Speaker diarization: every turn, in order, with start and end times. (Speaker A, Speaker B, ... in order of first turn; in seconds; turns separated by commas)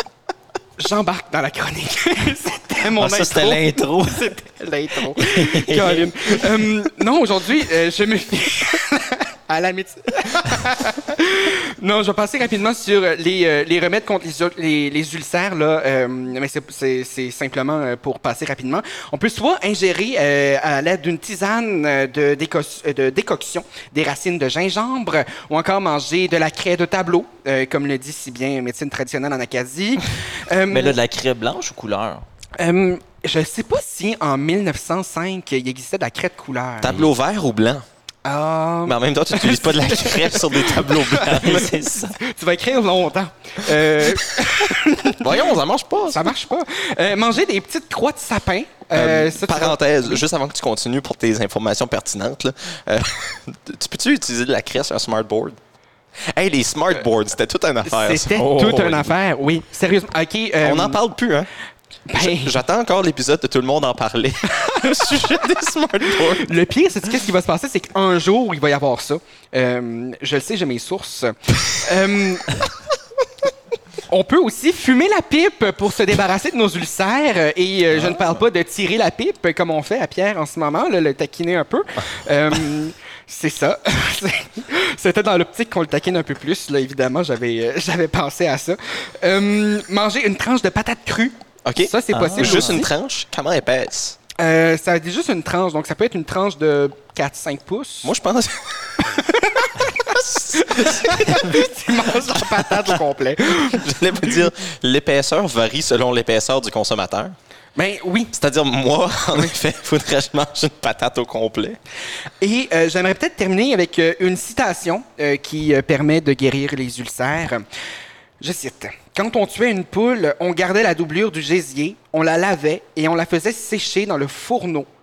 Speaker A: 0.8-31.0, Speaker B: 3.0-4.3, Speaker B: 5.1-6.4, Speaker B: 30.7-32.2, Speaker A: 32.6-37.1, Speaker C: 36.8-37.8, Speaker A: 38.2-41.6, Speaker C: 38.9-41.6, Speaker B: 41.1-42.2, Speaker A: 42.2-45.3, Speaker C: 45.2-46.2, Speaker A: 46.1-50.2, Speaker C: 48.9-55.6, Speaker C: 56.3-59.1, Speaker A: 57.8-61.0, Speaker C: 60.6-61.5, Speaker A: 62.1-62.6, Speaker C: 62.2-66.5, Speaker A: 64.6-64.9, Speaker A: 66.1-72.5, Speaker A: 74.1-92.9, Speaker B: 78.0-78.3, Speaker C: 91.6-94.2, Speaker B: 92.1-92.8, Speaker A: 94.4-98.1, Speaker C: 98.0-98.9, Speaker A: 99.0-103.8, Speaker C: 100.1-101.6, Speaker C: 103.6-107.3, Speaker A: 107.8-108.3, Speaker C: 108.3-111.8, Speaker A: 112.4-117.6, Speaker A: 118.4-124.9